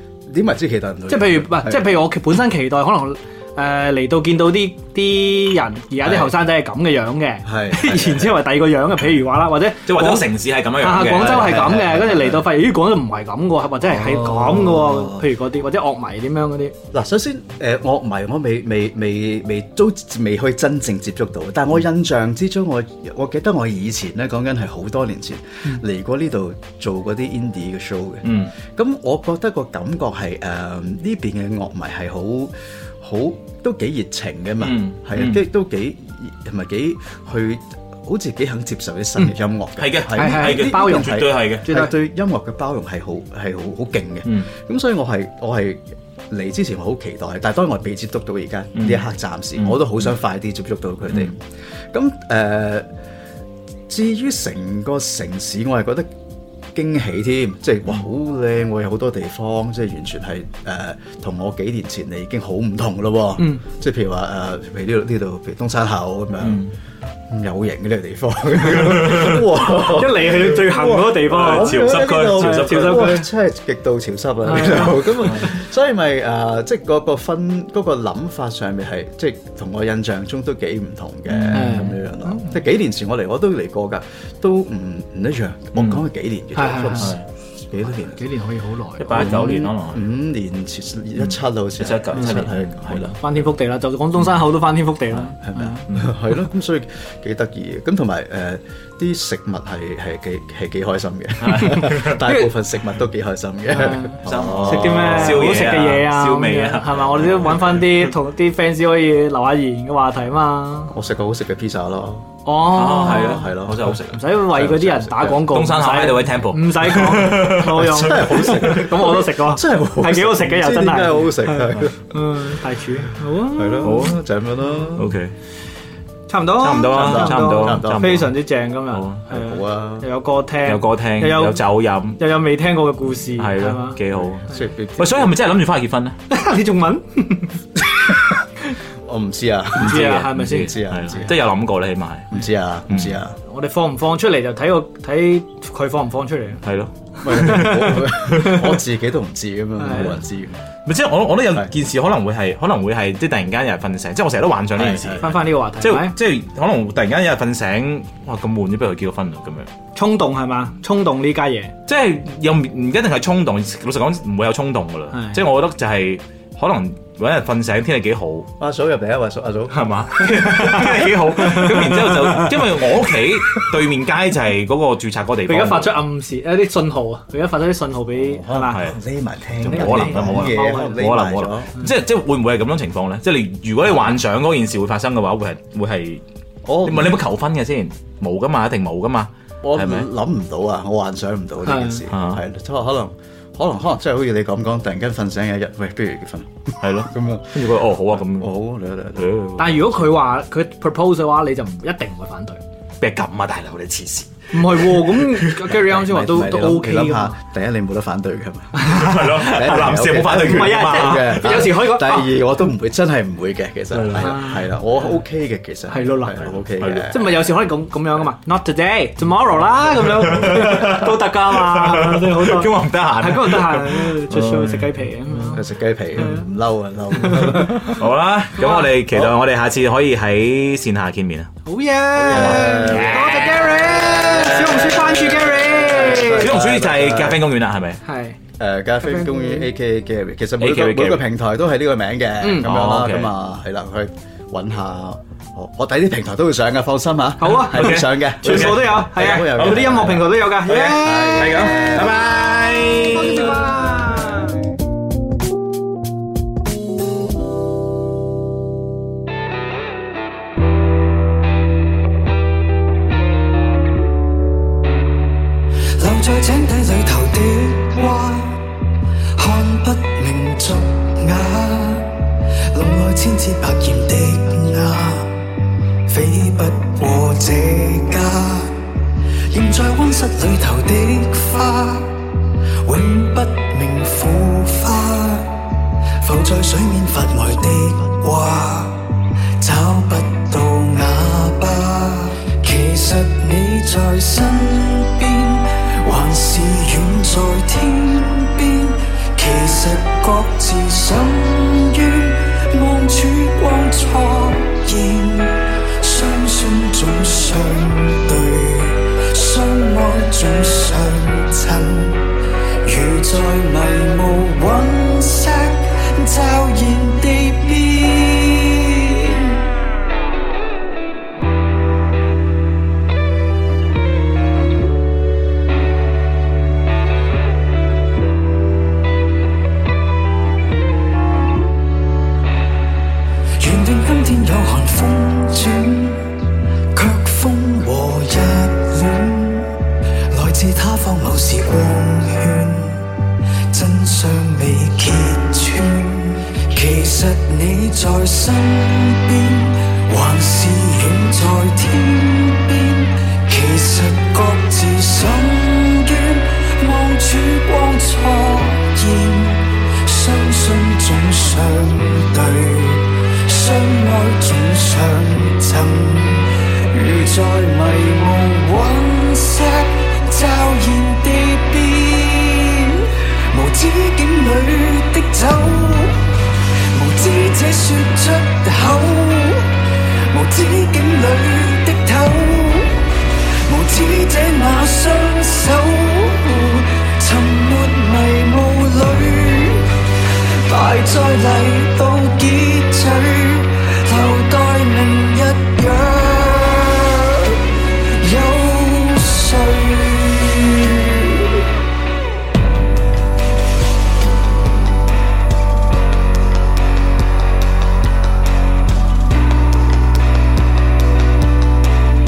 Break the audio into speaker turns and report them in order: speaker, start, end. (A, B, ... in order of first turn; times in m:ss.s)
0:00.3-0:01.8 A
0:01.1-0:16.8 B
0:07.4-0:08.2 A
0:09.9-0:11.7 C
0:11.2-0:12.4 A
0:13.9-0:15.3 A
0:16.9-0:52.9 A
0:28.2-0:28.5 C
0:34.6-0:35.4 C
0:39.8-0:41.6 C
0:40.1-0:41.9 B
0:48.8-0:50.0 C
0:53.9-0:56.1 A
0:56.8-1:06.6 A
1:03.4-1:03.6 B
1:06.4-1:06.7 C
1:07.3-1:27.2 A
1:08.6-1:09.6 C
1:09.7-1:13.3 B
1:11.2-1:13.2 C
1:14.5-1:15.5 B
1:15.2-1:15.5 C
1:21.3-1:22.0 C
1:21.5-1:22.6 B
1:25.8-1:26.0 C
1:26.6-1:27.2 B
1:27.0-1:27.2 C
1:27.7-1:28.2 A
1:28.1-1:29.7 B
1:29.0-1:30.0 C
1:29.1-1:33.2 A
1:31.2-1:33.2 C
1:33.2-1:35.9 B
1:35.4-1:45.5 A
1:41.4-1:42.2 C
1:41.5-1:42.5 B
1:43.7-1:50.9 B
1:43.9-1:48.1 C
1:50.9-1:52.3 A
1:52.4-2:04.2 B
1:52.7-1:58.9 C
1:53.0-1:54.0 A
1:54.6-1:55.4 A
1:57.8-2:02.0 A
2:03.5-2:05.2 A
2:03.8-2:04.2 C
2:05.0-2:05.3 C
2:06.3-2:11.6 B
2:06.6-2:08.4 C
2:06.9-2:08.2 A
2:08.9-2:09.2 C
2:09.3-2:10.1 A
2:10.6-2:12.2 C
2:12.2-2:14.0 B
2:13.4-2:14.5 C
2:14.4-2:15.4 A
2:15.0-2:16.2 C
2:16.3-2:17.6 B
2:19.0-2:21.3 A
2:19.8-2:21.2 B
2:19.8-2:22.4 C
2:22.3-2:23.4 A
2:22.9-2:23.2 C
2:23.5-2:26.6 B
2:26.6-2:28.7 C
2:27.2-2:30.6 A
2:27.3-2:28.6 B
2:29.8-2:30.2 B
2:30.9-2:39.7 C
2:34.8-2:35.4 A
2:35.2-2:36.2 B
2:40.0-2:41.7 B
2:41.9-2:48.5 C
2:45.1-2:45.4 B
2:48.6-2:50.0 A
2:49.7-2:56.0 C
2:50.2-2:52.6 B
2:55.5-2:58.8 B
2:58.2-3:01.7 A
2:58.7-2:59.0 C
2:59.6-3:06.2 C
2:59.6-3:01.0 B
3:06.6-3:07.2 A
3:06.8-3:10.1 C
3:09.6-3:19.4 A
3:11.6-3:12.0 B
3:12.1-3:12.4 C
3:16.8-3:18.5 C
3:19.2-3:20.0 C
3:19.6-3:22.6 B
3:23.0-3:25.6 C
3:24.5-3:27.4 B
3:25.6-3:37.3 A
3:28.8-3:29.3 B
3:28.8-3:31.5 C
3:30.3-3:32.4 B
3:33.9-3:34.5 C
3:34.2-3:35.1 B
3:35.9-3:46.5 B
3:36.8-3:37.1 C
3:40.0-3:44.9 C
3:45.5-3:47.9 A
3:47.1-3:48.0 B
3:47.3-3:51.5 C
3:48.6-3:48.9 B
3:51.7-3:56.5 B
3:52.2-3:53.4 A
3:52.2-3:55.4 C
3:54.4-3:55.1 A
3:55.7-3:57.4 A
3:56.0-3:58.0 C
3:58.0-3:58.4 B
3:58.6-4:12.2 A
3:59.0-3:59.7 B
4:00.6-4:01.2 C
4:02.4-4:02.7 B
4:02.6-4:03.3 C
4:07.4-4:12.1 B
4:07.6-4:13.7 C
4:12.9-4:14.6 B
4:26.0-4:28.7 D
4:29.4-4:35.5 D
4:36.1-4:38.9 D
4:39.5-5:12.3 D
5:12.8-5:19.6 D
5:33.6-6:41.7 D